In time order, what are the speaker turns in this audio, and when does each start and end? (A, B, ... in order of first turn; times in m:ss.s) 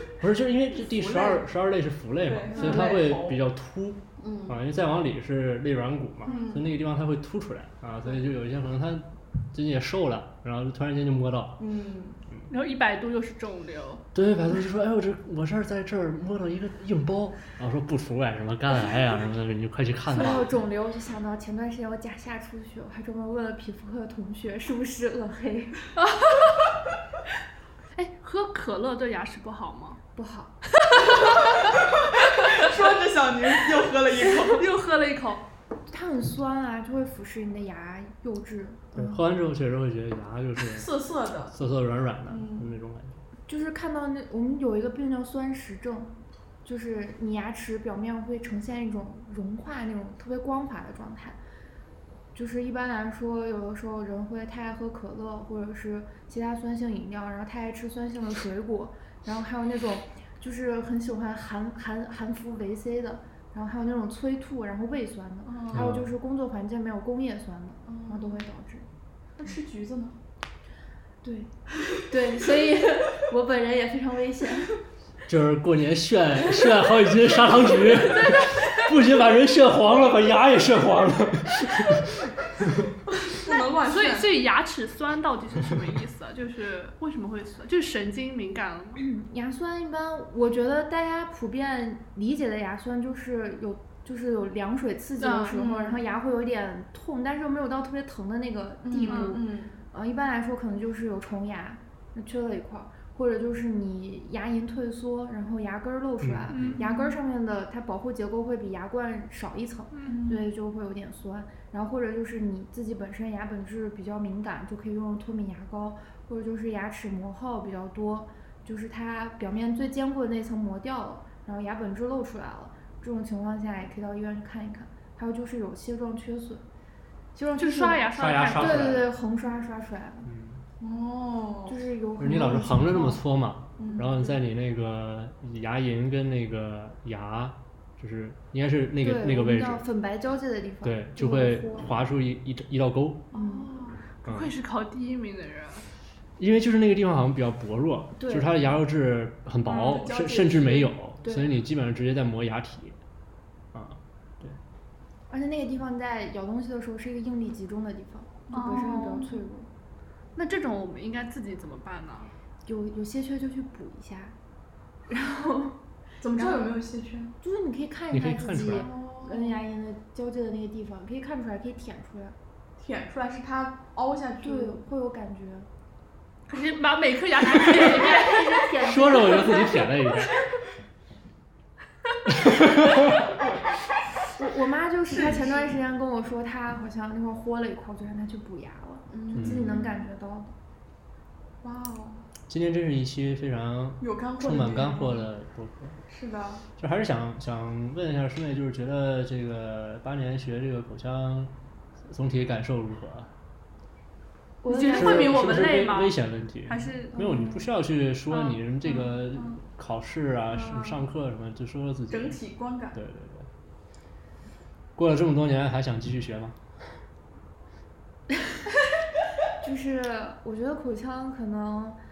0:00.2-0:11.6 A
0:00.9-0:01.4 B
0:02.2-0:03.4 B
0:04.2-0:04.6 B
0:06.3-0:06.7 B
0:11.6-0:12.2 B
0:12.5-0:14.0 C
0:14.1-0:20.5 A
0:20.1-0:25.8 D
0:26.0-0:26.6 C
0:28.0-0:30.0 C
0:30.1-0:30.5 D
0:30.7-0:31.4 C
0:31.1-0:31.4 B
0:32.0-0:34.6 B
0:34.3-0:35.4 C
0:35.9-0:39.3 D
0:38.9-0:40.9 A
0:40.6-0:41.6 B
0:41.5-0:43.2 A
0:42.3-0:42.7 B
0:43.5-0:51.4 D
0:52.3-1:08.9 D
1:05.4-1:05.9 B
1:05.7-1:06.1 A
1:07.9-1:08.4 B
1:09.4-1:10.2 B
1:11.2-1:14.8 D
1:15.3-1:22.9 A
1:17.9-1:18.9 C
1:23.1-1:24.3 B
1:23.8-1:29.0 C
1:29.0-2:06.6 D
1:35.2-1:35.6 C
1:35.5-1:36.0 B
1:38.8-1:39.7 B
1:39.1-1:39.4 C
1:46.2-1:46.8 A
1:46.5-1:47.0 C
1:49.9-1:50.2 C
1:50.1-1:50.4 B
2:07.4-2:10.3 D
2:07.6-2:09.0 C
2:08.1-2:09.1 A
2:10.2-2:10.6 A
2:10.8-2:11.8 B
2:11.7-2:13.2 D
2:12.2-2:19.8 A
2:13.8-2:14.2 B
2:13.9-2:14.2 D
2:19.0-2:22.0 D
2:20.8-2:23.3 A
2:23.3-2:23.7 D
2:23.4-2:25.9 C
2:23.5-2:23.8 B
2:24.2-2:24.5 A
2:26.4-2:33.0 A
2:28.2-2:28.8 D
2:29.6-2:31.0 B
2:31.2-2:31.6 D
2:33.7-2:34.6 A
2:35.3-2:39.7 D
2:38.5-2:39.4 C
2:40.4-2:42.3 C
2:42.6-2:44.4 D
2:45.1-2:45.8 D
2:46.2-2:47.3 B
2:46.3-2:46.8 D
2:47.4-2:52.4 D
2:48.1-2:48.9 A
2:48.7-2:49.6 B
2:52.8-2:54.8 B
2:54.4-2:55.7 D
2:56.5-2:58.4 C
2:57.5-3:00.1 D
2:57.7-2:58.4 B
2:58.8-3:00.3 A
3:02.3-3:03.1 A
3:04.4-3:10.5 D
3:05.1-3:05.8 B
3:09.1-3:10.1 B
3:09.3-3:09.9 A
3:11.6-3:12.2 B
3:12.5-3:16.0 A
3:14.0-3:15.3 B
3:16.1-3:16.7 B
3:16.8-3:21.5 A
3:22.0-3:23.3 A
3:24.6-3:25.5 D
3:24.7-3:27.1 C
3:24.9-3:32.4 A
3:27.1-3:27.7 D
3:28.8-3:29.6 B
3:30.5-3:31.0 B
3:32.1-3:33.0 B
3:32.9-3:33.5 A
3:35.0-3:36.6 A
3:39.6-3:42.0 D